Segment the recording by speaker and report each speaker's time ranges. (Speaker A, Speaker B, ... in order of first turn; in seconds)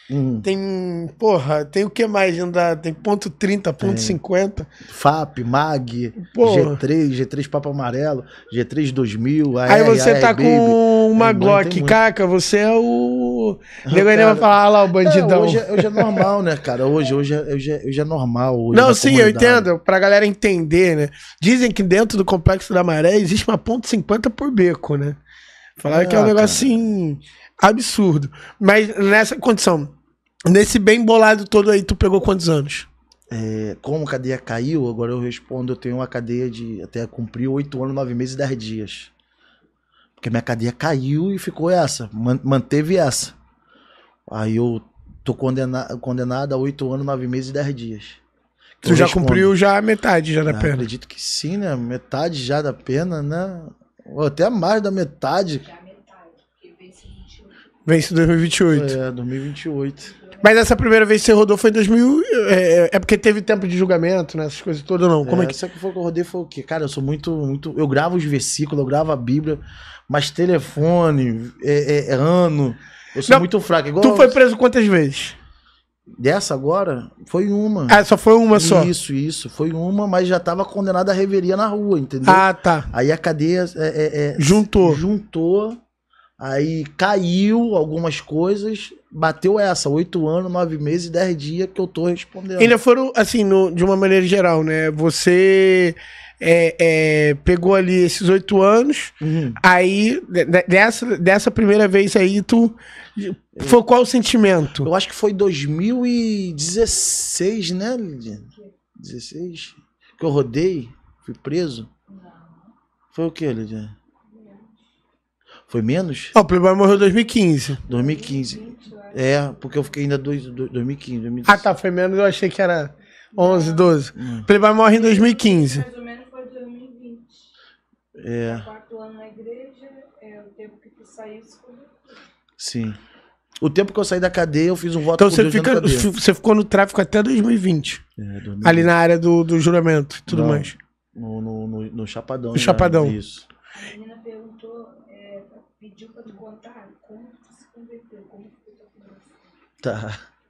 Speaker A: 0.1-0.5, 3.8-4.2, 4.8-12.0, 13.8-19.7, 25.9-26.8, 33.3-39.1, 40.2-43.4, 44.3-48.2, 48.8-49.5, 50.5-55.7, 58.7-60.2, 65.2-74.4, 76.2-85.8, 86.4-92.8, 99.2-99.6, 103.6-103.8, 104.8-111.9, 113.1-113.9, 115.7-116.3, 117.9-121.7, 124.2-124.5, 128.2-128.7, 132.6-133.0, 133.6-136.1, 138.2-138.9, 140.3-143.5, 149.8-150.2
Speaker B: 0.4-4.7, 6.3-6.8, 9.7-16.3, 18.7-25.2, 25.8-29.9, 30.5-32.9, 48.8-50.9, 57.9-59.0, 60.4-65.6, 74.0-75.4, 77.9-78.9, 82.2-82.9, 84.4-85.0, 92.6-104.9, 116.3-117.8, 121.5-125.9, 135.2-138.0, 138.6-140.8, 142.5-143.2
Speaker C: 55.7-57.6, 112.1-112.7, 114.4-114.7, 117.9-119.1, 123.4-124.0, 125.2-127.5, 128.5-132.1, 143.8-149.3